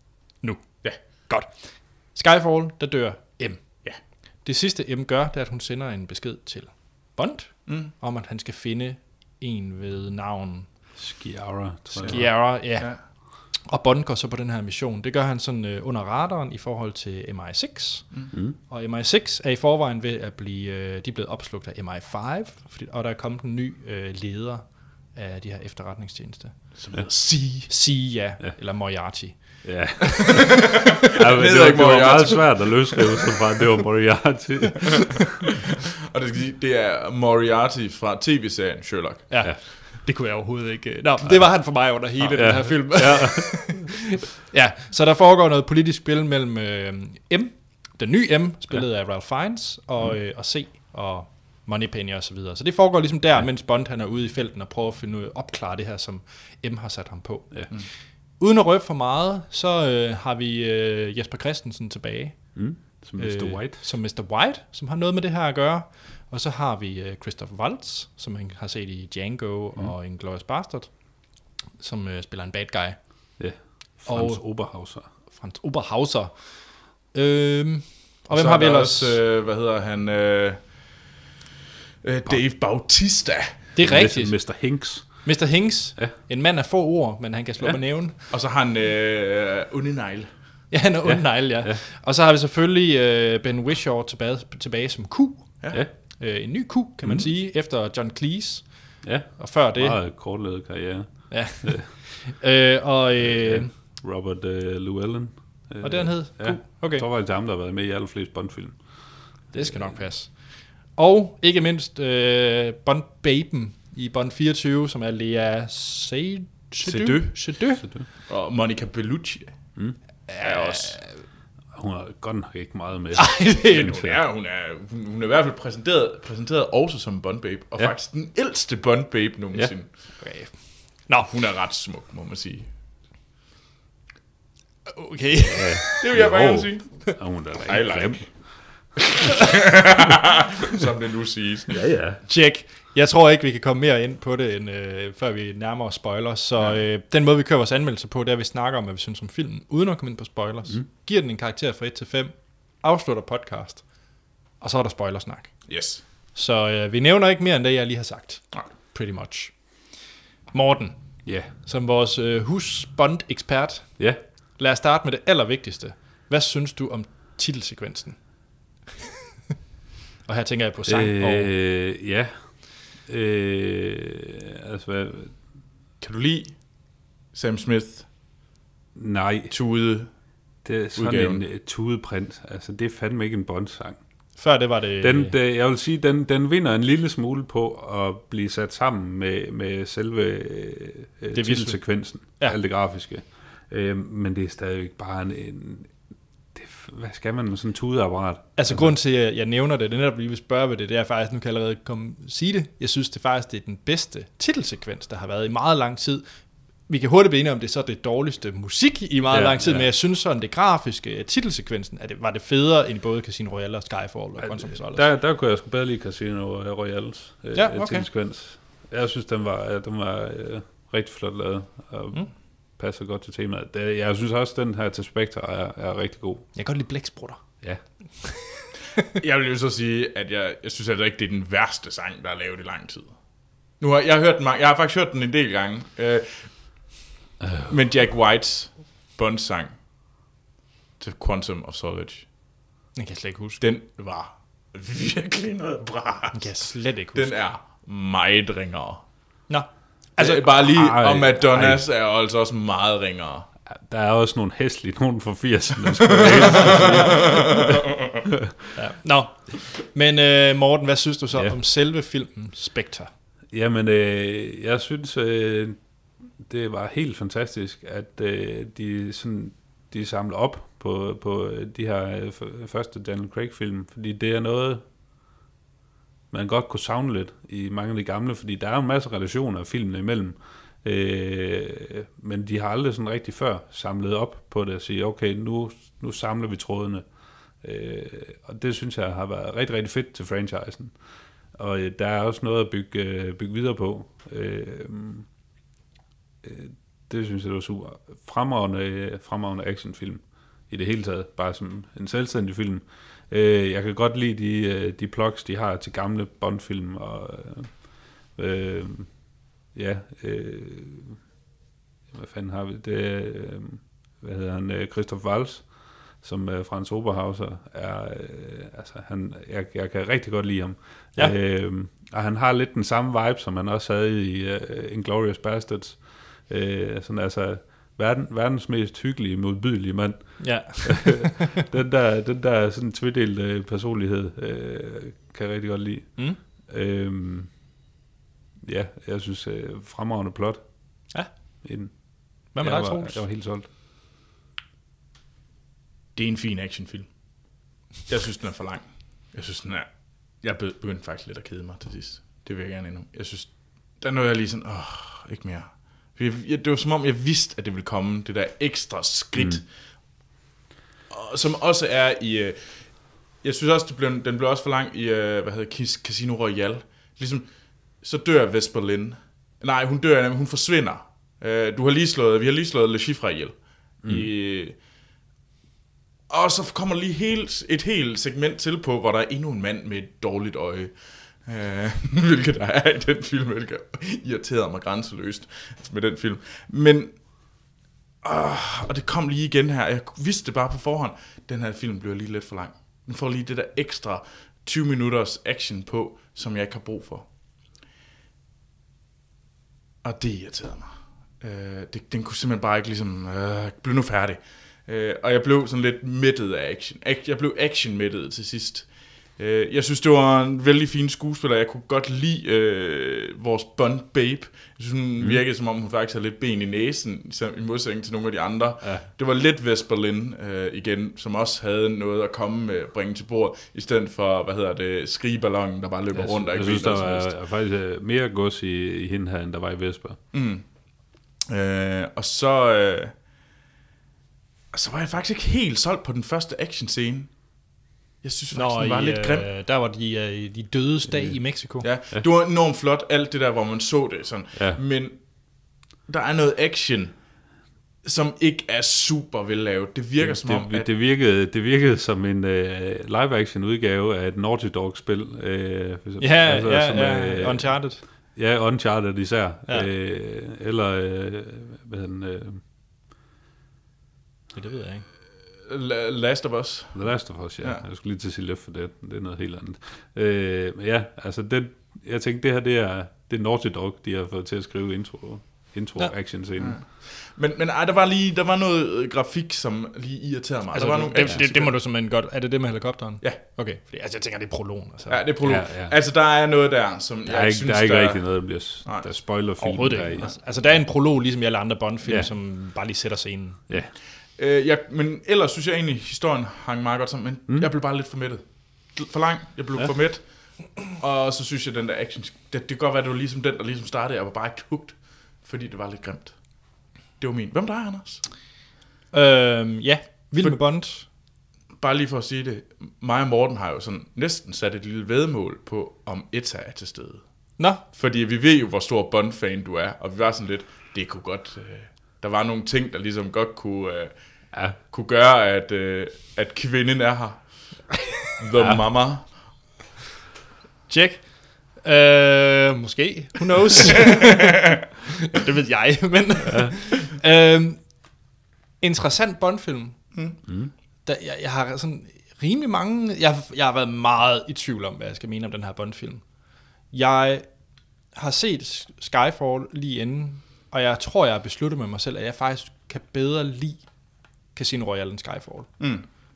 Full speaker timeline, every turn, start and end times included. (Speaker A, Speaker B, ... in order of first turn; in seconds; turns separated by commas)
Speaker A: 0.4-1.5, Speaker A: 2.1-3.9, Speaker A: 4.4-10.7, Speaker B: 7.7-7.9, Speaker C: 11.0-12.3, Speaker A: 11.9-13.0, Speaker B: 12.1-13.0, Speaker A: 13.7-26.6, Speaker B: 26.8-27.7, Speaker A: 27.7-30.4, Speaker C: 29.6-35.3, Speaker B: 30.3-33.2, Speaker B: 36.1-39.3, Speaker A: 39.3-57.9, Speaker C: 42.3-44.0, Speaker A: 58.4-71.1, Speaker C: 62.5-63.8, Speaker A: 71.8-73.4, Speaker C: 73.4-75.1, Speaker A: 74.0-74.7, Speaker A: 75.3-79.2, Speaker B: 78.3-81.1, Speaker B: 82.0-83.5, Speaker A: 83.8-84.4, Speaker C: 83.8-85.3, Speaker A: 85.0-88.2, Speaker B: 88.3-90.3, Speaker A: 90.7-100.0, Speaker C: 91.0-91.8, Speaker C: 99.0-101.9, Speaker A: 101.3-103.7, Speaker C: 103.2-108.8, Speaker A: 105.8-107.0, Speaker A: 109.5-117.8, Speaker C: 109.6-110.0, Speaker B: 116.8-117.6, Speaker B: 118.2-119.8, Speaker A: 120.3-121.1, Speaker B: 120.4-121.0, Speaker C: 121.7-124.2, Speaker A: 123.2-124.0, Speaker B: 123.7-129.9, Speaker A: 130.2-131.3, Speaker B: 131.3-132.7, Speaker A: 134.9-136.1, Speaker C: 135.5-138.9, Speaker B: 136.0-137.1, Speaker B: 137.6-141.8, Speaker C: 141.7-142.2, Speaker A: 142.3-153.9, Speaker A: 154.6-155.7, Speaker B: 155.7-156.0, Speaker A: 156.3-159.8, Speaker A: 160.5-161.0, Speaker A: 161.5-164.0, Speaker A: 164.6-168.2, Speaker A: 170.2-171.5, Speaker C: 170.9-175.4, Speaker B: 176.0-176.8, Speaker B: 177.3-178.1, Speaker C: 178.9-179.5, Speaker B: 179.5-180.1, Speaker C: 180.6-184.0, Speaker B: 180.9-181.4, Speaker A: 184.4-185.4, Speaker C: 185.0-195.9, Speaker A: 191.3-192.6, Speaker C: 196.5-198.9, Speaker A: 198.6-215.1, Speaker C: 209.3-209.9, Speaker C: 214.5-226.5, Speaker A: 217.5-218.1, Speaker A: 226.6-227.4, Speaker A: 228.2-228.7, Speaker B: 229.2-233.2, Speaker B: 233.8-236.7, Speaker C: 237.4-237.7, Speaker B: 237.7-239.7, Speaker B: 241.0-242.3, Speaker A: 242.9-243.6, Speaker B: 243.6-246.6, Speaker A: 246.3-247.3, Speaker B: 247.1-249.0, Speaker A: 249.5-250.4, Speaker B: 250.2-253.5, Speaker C: 250.7-251.8, Speaker C: 253.7-258.5, Speaker B: 256.1-257.9, Speaker A: 258.8-263.1, Speaker C: 263.5-265.8, Speaker C: 266.4-274.8, Speaker C: 276.3-287.1, Speaker C: 287.6-290.9, Speaker C: 291.6-295.3, Speaker C: 296.4-311.2, Speaker C: 312.1-337.5, Speaker A: 330.4-331.5, Speaker C: 338.6-341.1, Speaker C: 341.6-343.7, Speaker A: 342.5-343.2, Speaker B: 346.1-347.1, Speaker B: 348.1-359.7, Speaker B: 361.1-367.5, Speaker B: 368.0-374.8, Speaker B: 376.3-387.7, Speaker B: 388.2-397.3, Speaker B: 400.0-427.3, Speaker C: 426.1-430.2, Speaker B: 430.3-430.7, Speaker B: 431.5-433.2, Speaker B: 434.7-439.5, Speaker A: 438.5-441.9, Speaker B: 441.8-447.2, Speaker B: 448.0-450.9, Speaker C: 450.2-462.6, Speaker A: 456.2-458.0, Speaker A: 464.5-465.1, Speaker B: 465.6-467.8, Speaker C: 466.9-476.8, Speaker B: 476.6-481.8, Speaker A: 480.7-485.2, Speaker C: 481.2-481.4, Speaker B: 485.1-489.1, Speaker C: 485.4-485.9, Speaker C: 487.3-490.3, Speaker A: 489.6-493.6, Speaker C: 492.1-492.3, Speaker B: 494.4-506.4, Speaker B: 507.2-508.3, Speaker A: 509.1-511.1, Speaker B: 511.8-517.2, Speaker B: 517.8-524.1, Speaker B: 524.9-527.6, Speaker B: 528.3-529.3, Speaker C: 528.6-528.8, Speaker A: 530.9-537.9, Speaker B: 534.1-534.5, Speaker C: 536.5-536.7, Speaker A: 538.8-540.1, Speaker A: 541.0-546.2, Speaker A: 546.9-547.5, Speaker A: 548.1-553.8, Speaker A: 554.5-555.8, Speaker B: 555.8-556.1